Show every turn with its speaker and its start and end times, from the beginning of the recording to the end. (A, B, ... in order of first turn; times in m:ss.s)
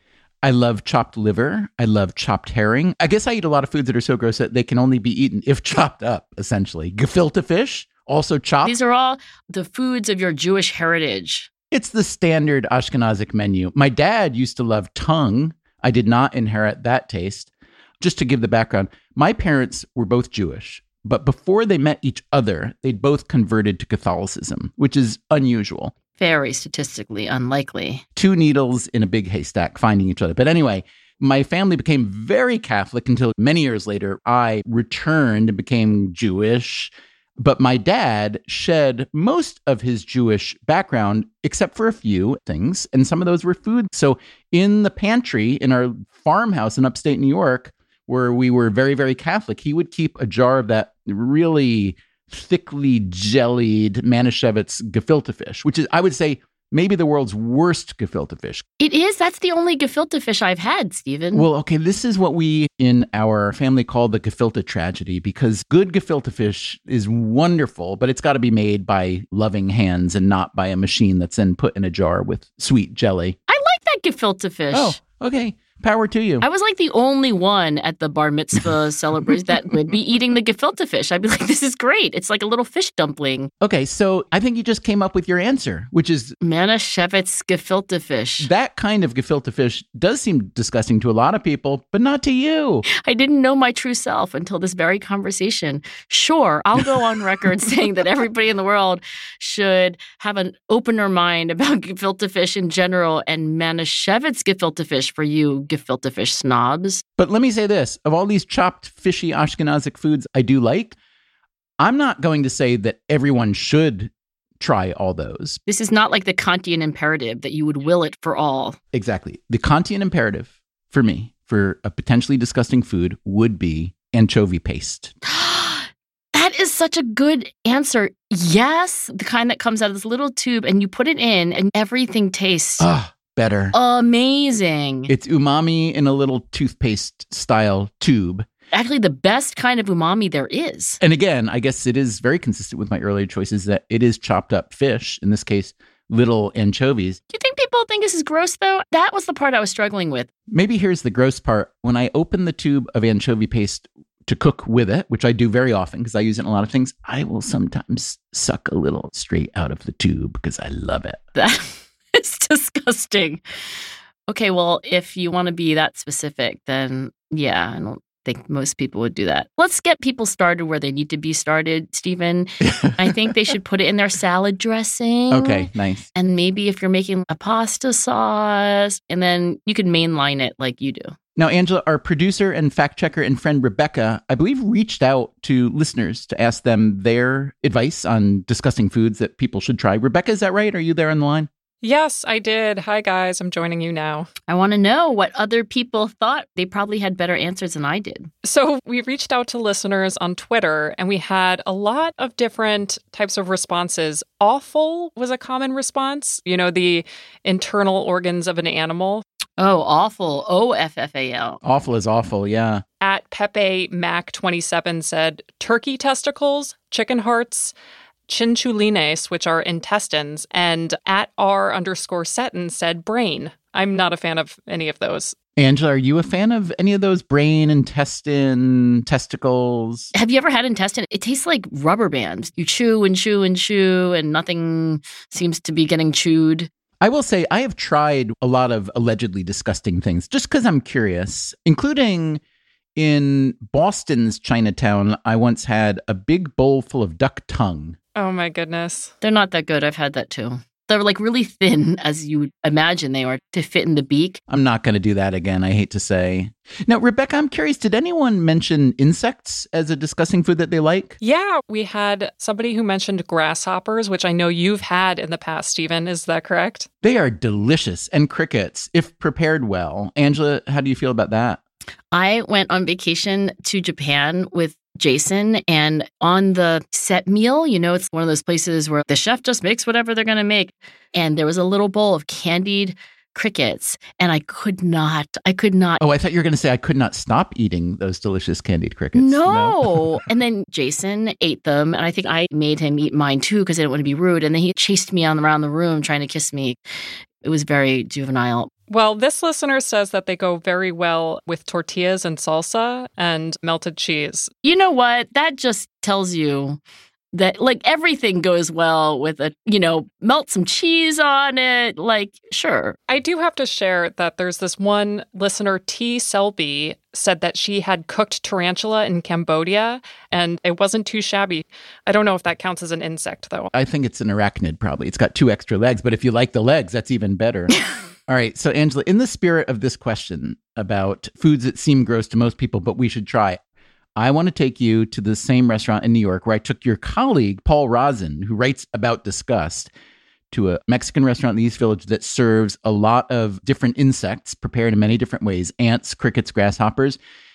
0:00.4-0:08.8 A
0:08.6-0:11.5 B
0:11.7-0:25.9 A
0:26.2-0:28.0 B
0:28.2-0:58.6 A
0:58.8-1:01.4 B
1:01.3-1:13.4 A
1:13.5-1:15.0 B
1:14.7-1:16.4 A
1:16.4-1:23.5 B
1:23.6-1:26.4 A
1:26.4-1:28.5 B
1:28.4-1:32.8 A
1:32.9-1:47.0 B
1:47.2-1:51.0 A
1:51.8-1:55.6 A
1:55.7-1:58.8 B
1:58.9-2:05.1 A
2:05.2-2:12.9 B
2:12.8-2:13.7 A
2:13.7-2:15.1 B
2:15.1-2:18.5 A
2:18.7-2:21.0 B
2:21.0-2:27.2 A
2:27.3-2:30.3 B
2:30.5-2:41.2 A
2:41.4-2:43.4 B
2:44.3-3:01.1 B
2:52.6-2:53.1 A
2:55.3-2:56.1 A
3:01.4-3:11.5 A
3:11.8-3:14.3 C
3:14.5-3:18.3 B
3:18.4-3:29.2 C
3:29.6-3:31.6 B
3:31.6-3:32.8 A
3:33.0-3:37.7 C
3:38.3-3:45.4 C
3:45.6-3:50.1 A
3:50.1-3:56.7 B
3:57.0-4:02.4 A
4:03.0-4:08.0 A
4:08.1-4:09.1 C
4:09.2-4:14.4 B
4:14.5-4:21.2 A
4:21.2-4:26.9 C
4:27.0-4:31.6 A
4:32.1-4:46.0 B
4:46.0-4:50.2 A
4:49.1-4:56.8 B
4:57.4-4:58.7 B
4:58.9-5:04.5 C
5:04.6-5:06.8 B
5:07.3-5:13.0 B
5:13.1-5:23.7 C
5:23.7-5:27.8 A
5:28.3-5:33.6 A
5:34.2-5:39.9 A
5:40.5-5:47.2 A